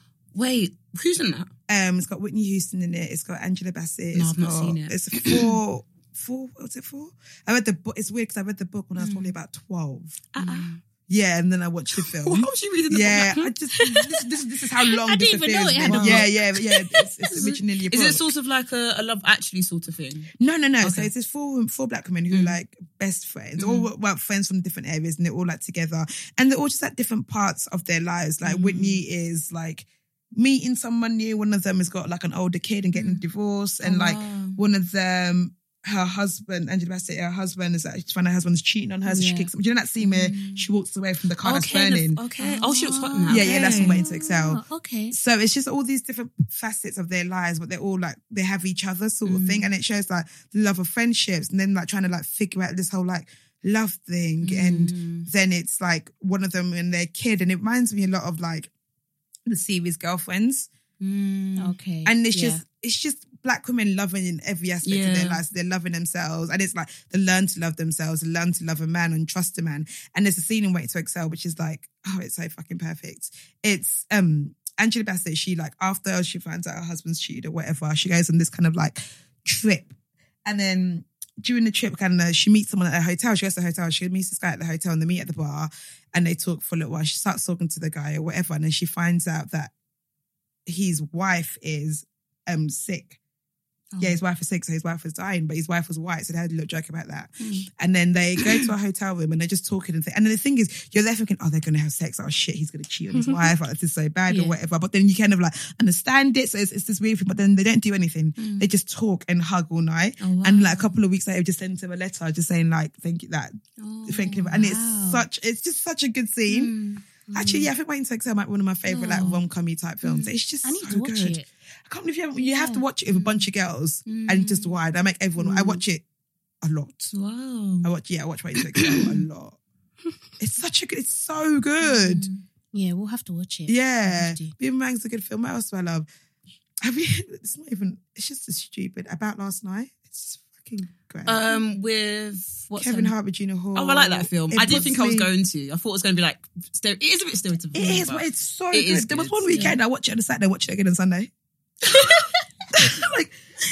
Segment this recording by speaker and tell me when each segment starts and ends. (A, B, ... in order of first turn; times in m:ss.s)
0:00.3-0:01.5 A
0:01.7-0:18.3 B
0:04.1-0:05.6 A
0:09.0-0:09.3 A
0:10.3-0:10.8 A
0:12.0-0:13.4 A
0:13.4-0:14.2 C
0:14.8-0:16.4 C
0:15.8-0:16.3 A
0:17.3-0:21.1 A
0:20.4-0:42.2 B
0:22.3-0:22.6 A
0:23.6-0:23.9 A
0:28.4-0:29.0 A
0:32.9-0:33.2 A
0:33.8-0:34.6 A
0:39.0-0:39.5 C
0:40.0-0:40.7 A
0:41.4-0:44.0 A
0:42.4-0:45.1 C
0:43.3-0:58.7 B
0:49.2-0:49.7 A
0:54.4-0:55.3 A
0:59.5-1:00.7 B
1:01.0-1:01.8 A
1:01.6-1:02.6 C
1:02.0-1:19.9 B
1:04.8-1:05.4 A
1:20.4-1:29.7 B
1:30.6-1:33.2 B
1:33.9-1:34.2 A
1:34.0-1:56.7 B
1:37.4-1:37.7 A
1:38.4-1:38.7 A
1:43.1-1:43.4 C
1:48.4-1:48.7 A
1:50.2-1:50.9 A
1:53.8-1:54.8 A
1:54.6-1:55.2 C
1:56.5-1:57.0 A
1:57.3-1:57.7 C
1:57.3-2:06.0 B
1:58.9-1:59.4 A
2:00.0-2:00.3 A
2:00.6-2:01.4 C
2:02.4-2:02.8 C
2:03.1-2:03.5 A
2:04.0-2:04.8 A
2:05.4-2:05.8 A
2:06.6-2:07.1 B
2:07.1-2:07.9 A
2:07.8-2:09.6 B
2:08.5-2:09.2 A
2:10.4-2:12.3 B
2:11.8-2:12.4 A
2:12.7-2:14.5 C
2:13.7-2:16.1 B
2:16.8-2:21.5 B
2:21.2-2:23.1 A
2:22.8-2:25.3 B
2:23.7-2:29.8 A
2:27.7-2:31.3 B
2:31.9-2:32.4 C
2:32.7-2:33.3 B